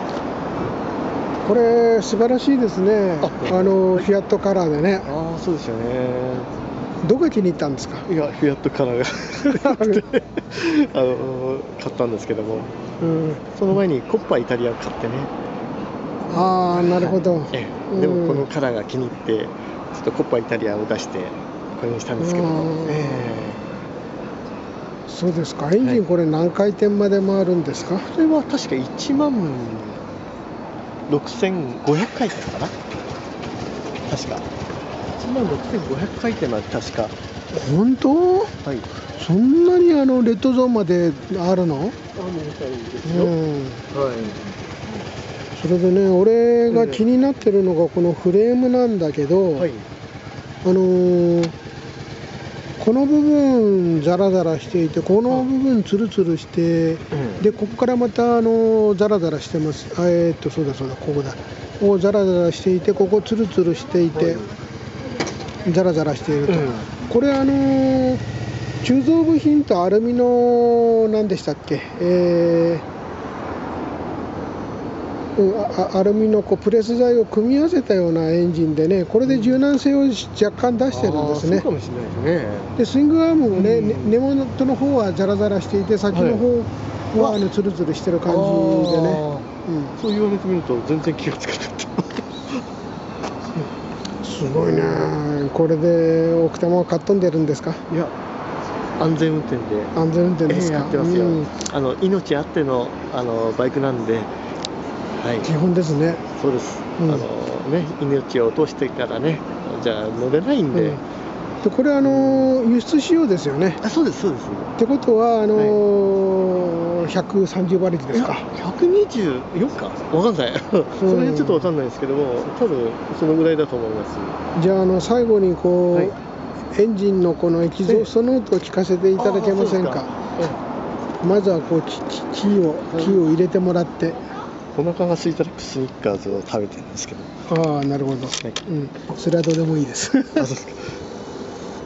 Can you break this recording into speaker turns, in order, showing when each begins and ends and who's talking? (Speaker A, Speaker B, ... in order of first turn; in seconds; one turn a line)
Speaker A: 1.4-5.1
Speaker B: 3.2-4.1
Speaker B: 5.0-6.5
Speaker A: 7.0-8.1
Speaker B: 8.1-12.7
Speaker A: 9.4-10.0
Speaker A: 13.0-13.4
Speaker B: 13.5-15.3
Speaker A: 16.3-18.5
Speaker B: 16.9-23.6
Speaker A: 22.2-23.2
Speaker A: 25.1-28.1
Speaker B: 28.1-30.0
Speaker B: 31.1-32.7
Speaker B: 34.1-34.5
Speaker B: 35.2-37.1
Speaker A: 37.5-38.5
Speaker A: 39.1-42.0
Speaker B: 42.1-43.3
Speaker A: 43.0-43.8
Speaker B: 43.9-44.4
Speaker A: 45.5-49.7
Speaker B: 46.7-47.1
Speaker B: 49.5-49.9
Speaker A: 50.6-51.5
Speaker A: 52.8-64.5
Speaker B: 57.1-57.4
Speaker B: 64.1-64.5
Speaker A: 65.6-68.2
Speaker B: 66.5-66.9
Speaker A: 68.8-72.8
Speaker A: 75.4-81.7
Speaker B: 79.2-79.6
Speaker B: 80.9-82.8
Speaker A: 82.8-90.0
Speaker B: 83.5-84.2
Speaker B: 86.1-86.5
Speaker B: 87.2-87.4
Speaker B: 88.2-92.6
Speaker A: 94.2-97.9
Speaker B: 97.9-98.1
Speaker B: 99.0-99.9
Speaker A: 99.9-101.5
Speaker B: 100.5-104.3
Speaker B: 105.2-105.5
Speaker A: 105.4-106.2
Speaker B: 106.3-111.0
Speaker A: 107.0-107.2
Speaker A: 110.7-111.0
Speaker A: 111.6-113.8
Speaker B: 112.0-112.5
Speaker B: 113.8-114.7
Speaker A: 114.8-118.5
Speaker B: 115.5-115.8
Speaker B: 118.1-124.3
Speaker A: 121.0-121.7
Speaker A: 124.5-126.2
Speaker A: 126.7-130.1
Speaker B: 129.2-130.6
Speaker A: 131.2-134.2
Speaker B: 132.9-133.2
Speaker B: 134.8-137.3
Speaker A: 137.5-140.5
Speaker B: 140.3-141.0